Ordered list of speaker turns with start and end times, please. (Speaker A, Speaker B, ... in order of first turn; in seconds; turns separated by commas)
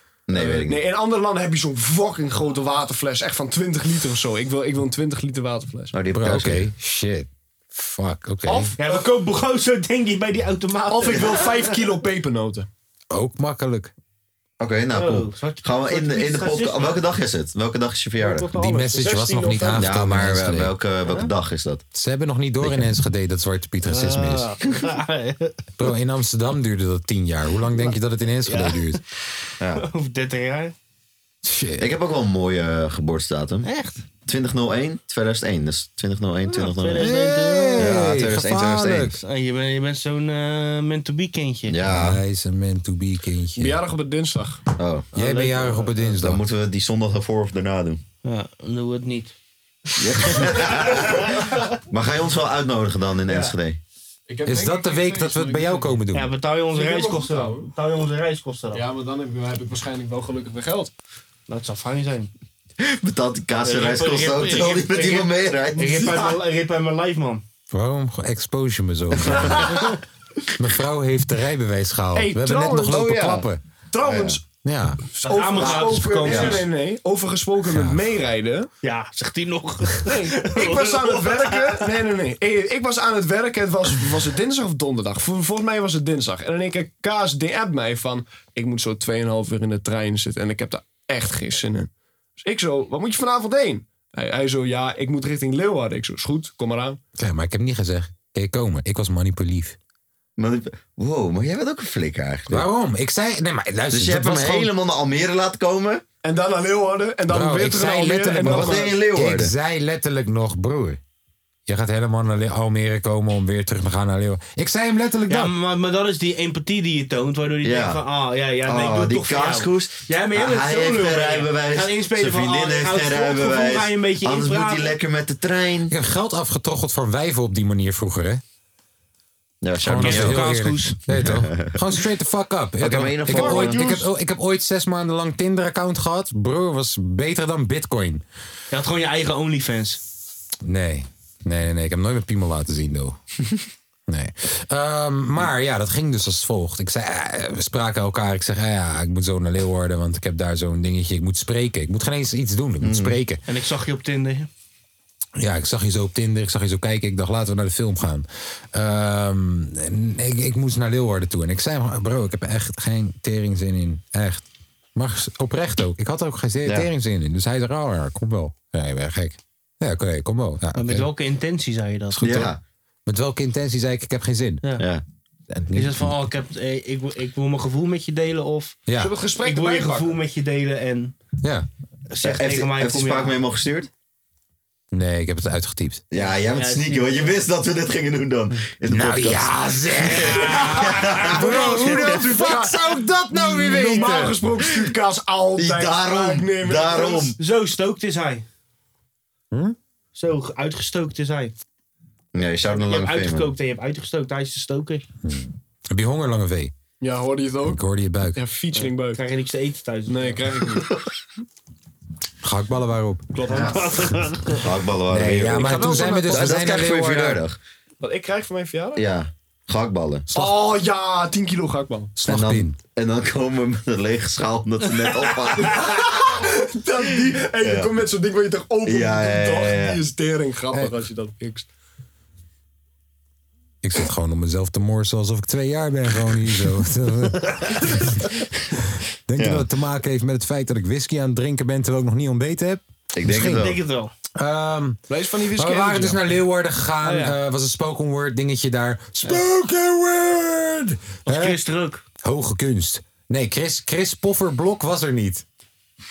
Speaker A: 0.3-0.8, Speaker B: 0.3-5.9, Speaker A: 5.9-6.7, Speaker C: 6.1-8.7, Speaker B: 8.4-9.1, Speaker D: 8.8-11.7, Speaker B: 10.9-12.7, Speaker C: 13.1-13.9, Speaker A: 14.6-18.5, Speaker D: 14.9-17.0, Speaker D: 18.2-19.0, Speaker C: 18.5-20.8, Speaker B: 18.9-20.0, Speaker A: 19.8-21.8, Speaker D: 21.1-21.3, Speaker C: 21.9-24.5, Speaker A: 22.6-22.9, Speaker D: 23.9-25.6, Speaker C: 25.8-29.0, Speaker D: 27.8-29.0, Speaker A: 29.6-29.8, Speaker D: 29.8-30.7, Speaker C: 31.4-31.9, Speaker A: 31.8-33.7, Speaker D: 33.6-34.0, Speaker A: 34.2-37.2, Speaker D: 36.5-37.9, Speaker C: 36.9-39.2, Speaker A: 37.8-39.2, Speaker D: 39.2-41.8, Speaker A: 41.7-42.2, Speaker C: 41.8-43.8, Speaker B: 43.6-44.6, Speaker A: 44.8-45.1, Speaker C: 45.1-46.4, Speaker D: 45.1-46.1, Speaker A: 46.2-48.0, Speaker D: 48.2-49.3, Speaker A: 50.0-53.8, Speaker D: 50.2-51.6, Speaker B: 53.3-53.5, Speaker B: 54.3-55.9, Speaker C: 54.4-56.3, Speaker D: 56.1-58.8, Speaker B: 56.7-57.7, Speaker B: 58.7-60.9, Speaker D: 61.5-62.3, Speaker A: 62.8-66.4, Speaker D: 63.6-67.4, Speaker C: 67.7-69.8, Speaker A: 69.2-69.7, Speaker C: 70.5-73.6, Speaker B: 72.1-74.4, Speaker A: 74.0-74.4, Speaker C: 74.6-75.0, Speaker B: 75.1-78.7, Speaker D: 75.2-76.6, Speaker A: 75.7-76.6, Speaker C: 77.7-78.1, Speaker D: 78.8-81.8, Speaker B: 80.0-91.9, Speaker B: 92.4-97.0, Speaker C: 97.2-99.8, Speaker A: 100.4-102.7, Speaker C: 102.5-104.7, Speaker A: 103.9-106.0, Speaker B: 106.2-109.0, Speaker C: 107.3-111.0, Speaker A: 108.4-109.5, Speaker C: 111.7-115.5, Speaker D: 115.3-124.9, Speaker A: 117.6-118.0, Speaker A: 118.6-125.9, Speaker C: 125.9-128.4, Speaker A: 129.6-131.8, Speaker C: 129.8-138.2, Speaker D: 130.0-131.0, Speaker A: 132.8-133.9, Speaker D: 133.3-134.0, Speaker D: 138.7-140.0, Speaker C: 140.6-143.2, Speaker C: 144.1-153.4, Speaker A: 152.8-153.2, Speaker D: 153.4-154.5, Speaker C: 155.4-171.1, Speaker D: 170.7-172.2, Speaker C: 172.1-172.5, Speaker A: 172.2-172.6, Speaker C: 173.1-174.6, Speaker A: 174.8-175.0, Speaker C: 175.5-176.2, Speaker D: 175.7-178.8, Speaker C: 178.9-179.1, Speaker B: 179.0-180.2, Speaker D: 179.4-181.1, Speaker C: 181.4-181.7, Speaker D: 182.1-183.4, Speaker A: 182.2-183.9, Speaker C: 184.9-186.0, Speaker A: 186.1-192.0, Speaker D: 186.5-187.4, Speaker C: 188.9-194.5, Speaker B: 191.2-197.3, Speaker A: 195.6-197.3, Speaker D: 197.4-198.4, Speaker C: 199.5-199.8, Speaker D: 200.1-201.5, Speaker A: 202.3-203.5, Speaker D: 202.6-205.0, Speaker C: 205.2-206.7, Speaker B: 207.0-207.8, Speaker C: 207.6-208.4, Speaker B: 208.3-209.2, Speaker D: 208.7-210.4, Speaker B: 210.1-210.9, Speaker C: 212.4-213.9, Speaker B: 213.3-213.9, Speaker D: 213.5-214.6, Speaker A: 214.6-217.6, Speaker C: 215.1-217.4, Speaker B: 215.5-216.6, Speaker B: 218.0-219.0, Speaker A: 218.9-220.3, Speaker B: 220.3-222.1, Speaker C: 222.2-222.8, Speaker A: 222.2-226.3, Speaker B: 225.6-231.7, Speaker A: 227.6-227.9, Speaker A: 228.8-230.0, Speaker C: 233.8-238.2, Speaker C: 239.3-243.8, Speaker A: 239.3-239.6, Speaker A: 243.1-243.8, Speaker D: 243.5-244.1, Speaker C: 244.3-251.6, Speaker B: 245.1-246.3, Speaker D: 247.0-247.3, Speaker D: 251.2-252.0, Speaker C: 252.2-255.4